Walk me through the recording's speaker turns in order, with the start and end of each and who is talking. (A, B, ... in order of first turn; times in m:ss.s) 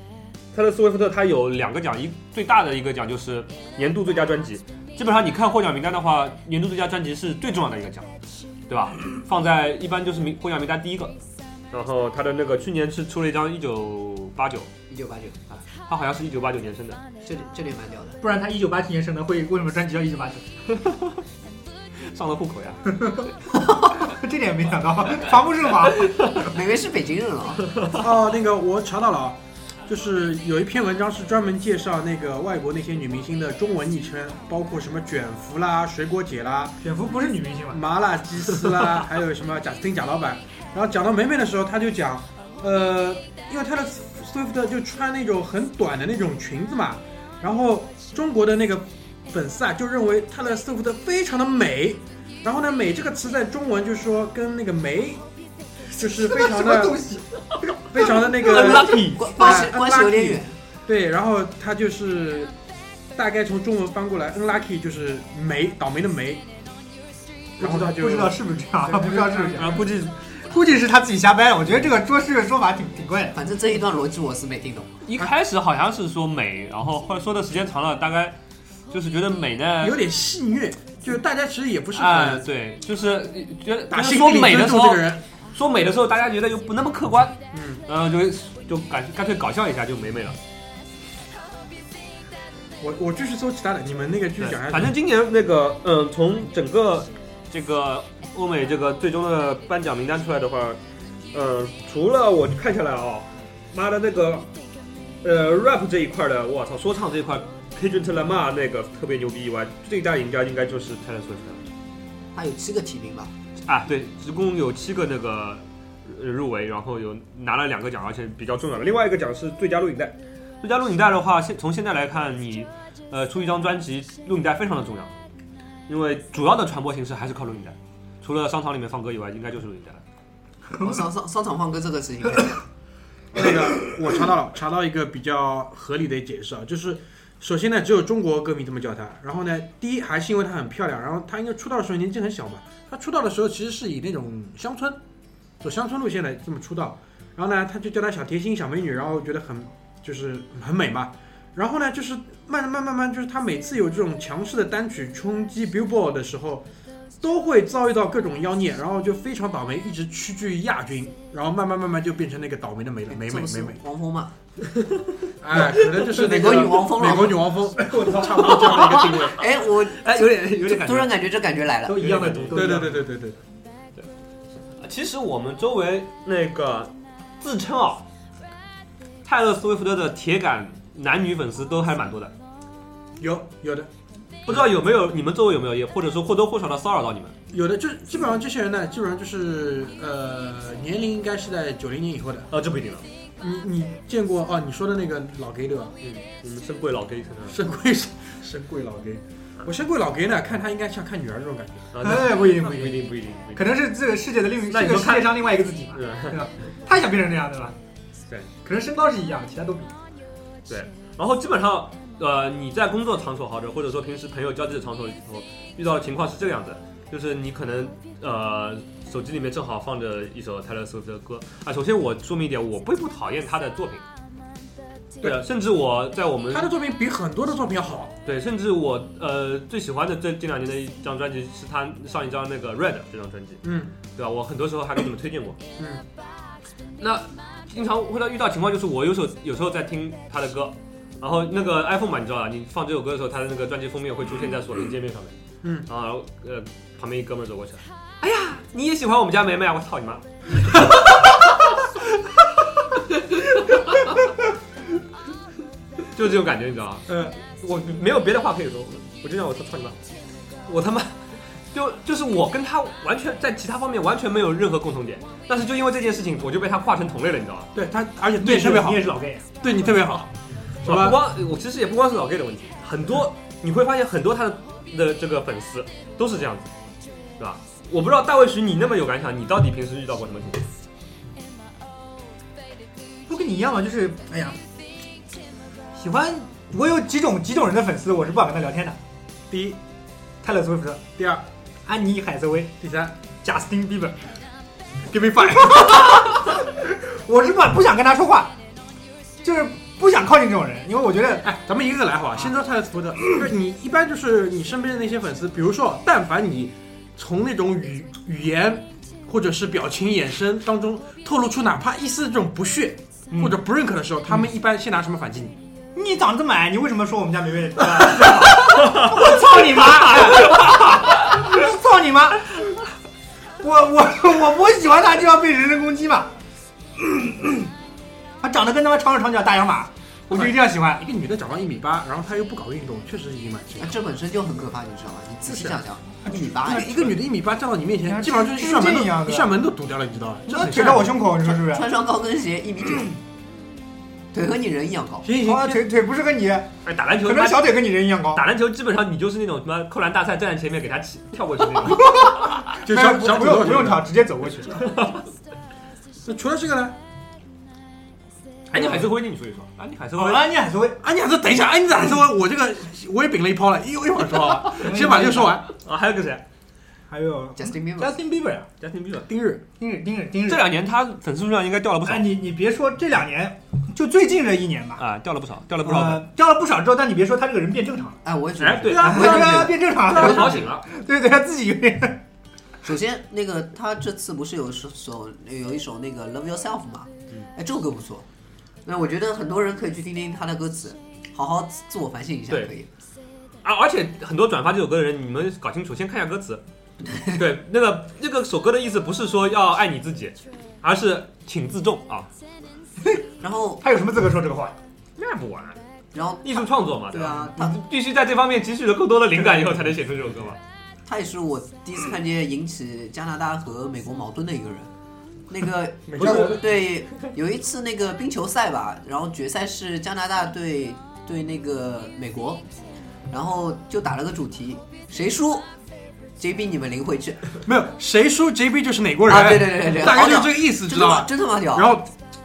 0:00.5-0:08.1 A
0:08.7-0:11.2 A
0:11.7-0:14.7 A
0:14.9-0:15.4 B
0:15.5-0:17.0 A
0:17.2-0:18.2 B
0:18.2-0:20.4 C
0:20.7-0:21.2 A
0:22.0-0:23.0 A
0:22.9-0:23.3 C
0:24.0-0:26.1 C
0:25.9-0:26.5 A
0:26.4-0:27.7 B
0:27.7-0:28.0 A
0:27.9-0:36.8 D
0:36.8-0:37.8 C
0:37.7-0:55.2 D
0:56.0-0:57.0 D
0:56.0-0:59.0 C
0:57.9-1:02.5 D
0:58.5-1:00.6 B
0:58.5-0:59.2 A
1:03.1-1:06.4 D
1:07.6-1:09.8 D
1:07.6-1:09.9 C
1:09.3-1:10.3 A
1:10.5-1:13.4 C
1:13.3-1:15.0 B
1:15.0-1:18.4 A
1:18.9-1:20.0 A
1:19.8-1:22.4 D
1:21.9-1:30.4 A
1:23.9-1:25.2 D
1:27.5-1:27.8 D
1:32.8-1:34.9 D
1:34.4-1:40.8 A
1:41.3-1:44.5 A
1:45.2-1:51.6 A
1:52.3-1:53.3 B
1:53.6-2:05.2 A
2:05.9-2:10.0 A
2:10.7-2:11.0 C
2:10.8-2:12.6 B
2:13.3-2:25.0 D
2:25.6-2:36.6 D
2:37.2-2:43.8 D
2:43.1-2:44.3 B
2:44.7-2:45.7 A
2:45.4-2:49.4 D
2:46.0-2:47.5 B
2:47.8-2:48.7 C
2:48.3-2:52.2 B
2:48.5-2:51.1 A
2:51.9-2:53.1 C
2:51.9-2:52.8 A
2:52.5-2:53.4 D
2:54.8-2:58.0 A
2:59.2-3:02.3 A
3:03.2-3:03.9 D
3:04.4-3:07.4 A
3:07.5-3:12.5 D
3:12.5-3:13.0 A
3:13.4-3:16.0 D
3:16.0-3:17.6 A
3:17.4-3:21.9 D
3:21.9-3:23.9 A
3:22.0-3:27.8 C
3:24.7-3:26.5 A
3:28.6-3:29.9 C
3:30.7-3:44.0 A
3:45.2-3:46.7 A
3:46.5-3:48.2 D
3:48.2-3:53.6 A
3:53.6-3:53.9 D
3:54.1-3:55.6 A
3:57.0-4:05.3 A
4:05.6-4:05.9 D
4:05.8-4:11.7 A
4:12.9-4:14.2 A
4:16.0-4:20.0 A
4:20.7-4:27.7 A
4:27.7-4:30.3 D
4:28.4-4:29.5 C
4:30.8-4:31.3 D
4:30.8-4:36.7 A
4:37.4-4:40.7 A
4:43.3-4:44.6 C
4:45.9-4:49.0 C
4:49.5-4:49.8 D
4:50.4-4:51.0 C
4:51.2-4:51.4 D
4:51.8-4:52.8 C
4:52.8-4:53.1 D
4:53.4-4:54.2 C
4:55.1-4:56.3 D
4:56.7-4:58.5 C
4:59.4-5:01.4 C
5:01.4-5:15.6 D
5:13.3-5:13.6 C
5:15.9-5:22.6 C
5:20.2-5:20.7 A
5:23.6-5:26.3 C
5:27.0-5:27.7 C
5:28.4-5:31.0 C
5:30.3-5:33.9 D
5:33.8-5:37.2 B
5:35.5-5:35.8 D
5:36.6-5:41.3 D
5:38.0-5:39.5 C
5:40.5-5:41.8 C
5:41.4-5:43.2 B
5:44.3-5:45.3 B
5:45.2-5:45.8 D
5:45.3-5:48.4 C
5:46.8-5:52.6 A
5:51.8-5:55.0 C
5:52.8-5:54.1 D
5:54.9-5:55.2 A
5:56.2-5:57.0 D
5:58.7-6:00.5 A
6:00.1-6:01.0 C
6:01.0-6:05.7 D
6:04.7-6:05.6 C
6:05.7-6:06.4 A
6:07.1-6:08.7 C
6:07.6-6:08.1 B
6:08.8-6:09.3 A
6:09.3-6:09.6 D
6:09.8-6:10.6 C
6:10.4-6:12.4 A
6:12.0-6:15.0 C
6:15.0-6:16.2 A
6:15.8-6:18.2 C
6:18.2-6:20.2 B
6:18.6-6:20.9 A
6:18.9-6:19.6 D
6:18.9-6:22.2 C
6:20.1-6:20.5 D
6:22.8-6:28.2 B
6:28.8-6:32.9 B
6:33.6-6:36.6 A
6:37.3-6:42.3 A
6:43.4-6:43.8 B
6:43.8-6:44.8 C
6:45.2-6:45.8 A
6:46.1-6:47.8 B
6:46.4-6:50.6 A
6:51.0-6:54.9 B
6:55.5-7:02.6 B
6:56.1-6:56.6 D
6:56.2-6:56.7 A
7:03.3-7:05.6 B
7:06.4-7:07.6 B
7:07.6-7:12.1 D
7:09.3-7:11.9 B